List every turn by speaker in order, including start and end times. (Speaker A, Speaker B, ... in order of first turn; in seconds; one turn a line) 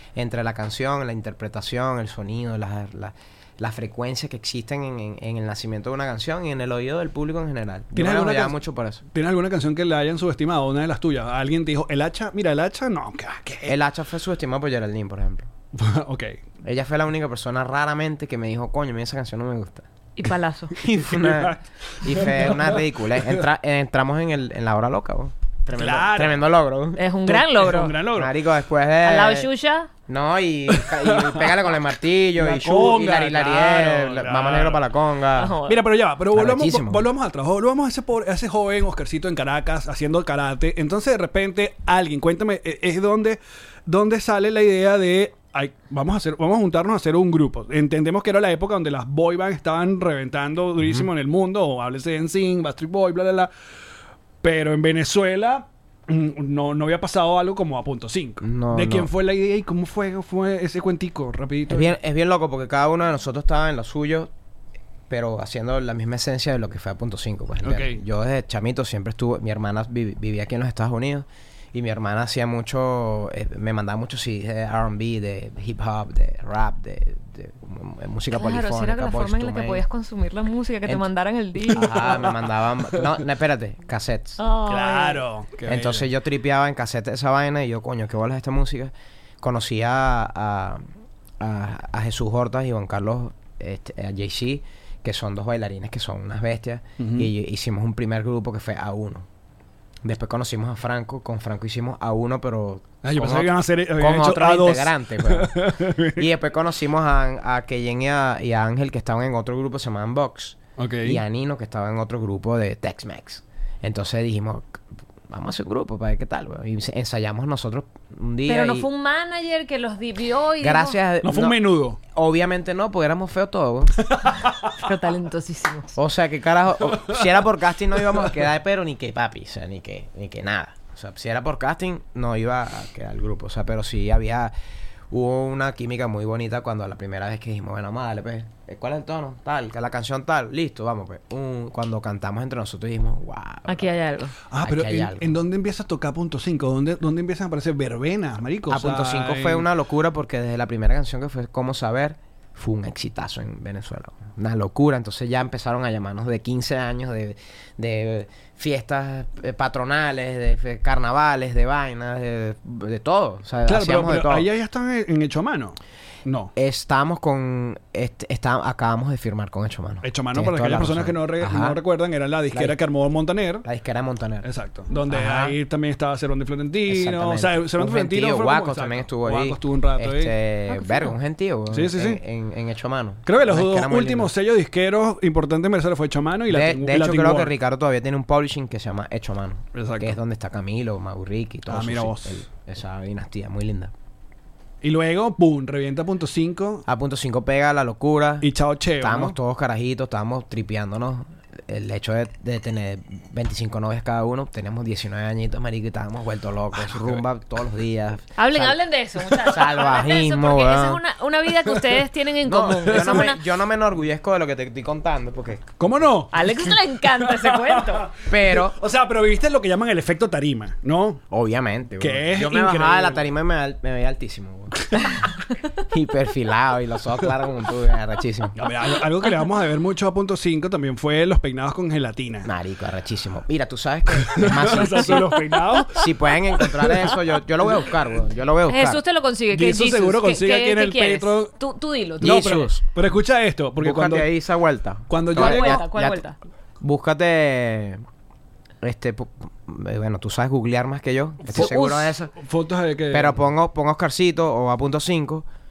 Speaker A: 0.1-9.0
Speaker B: 7.9-8.6
Speaker B: 9.1-13.8
Speaker A: 13.6-15.5
Speaker B: 15.7-16.4
Speaker A: 16.6-19.9
Speaker C: 20.1-20.8
Speaker A: 20.8-27.0
Speaker B: 21.0-23.4
Speaker B: 25.7-26.4
Speaker C: 26.9-27.9
Speaker B: 27.3-28.3
Speaker A: 28.1-29.5
Speaker C: 29.0-29.9
Speaker A: 30.1-35.6
Speaker B: 30.7-31.5
Speaker B: 32.4-34.8
Speaker C: 35.4-35.8
Speaker B: 35.6-53.5
Speaker A: 36.3-37.1
Speaker B: 54.4-61.9
Speaker A: 58.4-59.1
Speaker A: 61.7-64.3
Speaker A: 65.1-79.8
Speaker B: 67.6-68.0
Speaker C: 78.3-82.2
Speaker A: 81.7-84.4
Speaker B: 81.7-82.4
Speaker C: 84.4-85.2
Speaker B: 84.7-86.0
Speaker A: 85.7-90.8
Speaker A: 91.4-99.3
Speaker B: 97.0-97.3
Speaker A: 100.0-118.9
Speaker B: 103.0-106.2
Speaker B: 110.8-111.2
Speaker C: 118.5-121.0
Speaker A: 120.6-121.6
Speaker B: 121.2-122.0
Speaker A: 122.1-124.0
Speaker B: 124.0-124.7
Speaker C: 124.7-125.9
Speaker A: 125.9-134.5
Speaker A: 135.1-143.9
Speaker C: 143.7-144.4
Speaker B: 144.5-149.6
Speaker A: 144.6-145.4
Speaker A: 148.7-164.5
Speaker B: 163.7-166.5
Speaker A: 166.6-171.8
Speaker B: 170.0-173.7
Speaker A: 172.5-172.8
Speaker A: 173.6-174.5
Speaker B: 174.4-180.3
Speaker A: 175.1-175.6
Speaker A: 176.9-184.3
Speaker C: 180.7-181.1
Speaker B: 181.7-182.2
Speaker B: 183.2-187.5
Speaker A: 186.5-193.9
Speaker B: 189.7-190.2
Speaker B: 191.7-192.4
Speaker B: 194.8-196.8
Speaker A: 196.9-198.5
Speaker B: 198.4-199.3
Speaker A: 199.0-208.8
Speaker B: 206.8-207.2
Speaker C: 208.4-213.4
Speaker A: 209.4-211.0
Speaker A: 212.4-215.8
Speaker B: 212.9-213.2
Speaker B: 215.8-221.2
Speaker C: 216.3-218.2
Speaker A: 218.2-218.8
Speaker A: 221.3-225.2
Speaker B: 222.0-223.2
Speaker A: 225.9-228.6
Speaker B: 228.6-232.5
Speaker A: 232.4-239.0
Speaker B: 234.2-237.2
Speaker C: 238.7-242.7
Speaker B: 239.5-241.5
Speaker A: 242.2-242.8
Speaker B: 242.2-244.3
Speaker A: 243.8-246.2
Speaker B: 245.1-245.8
Speaker C: 245.3-246.4
Speaker A: 246.8-248.0
Speaker A: 248.8-252.3
Speaker B: 251.4-253.3
Speaker A: 253.1-255.4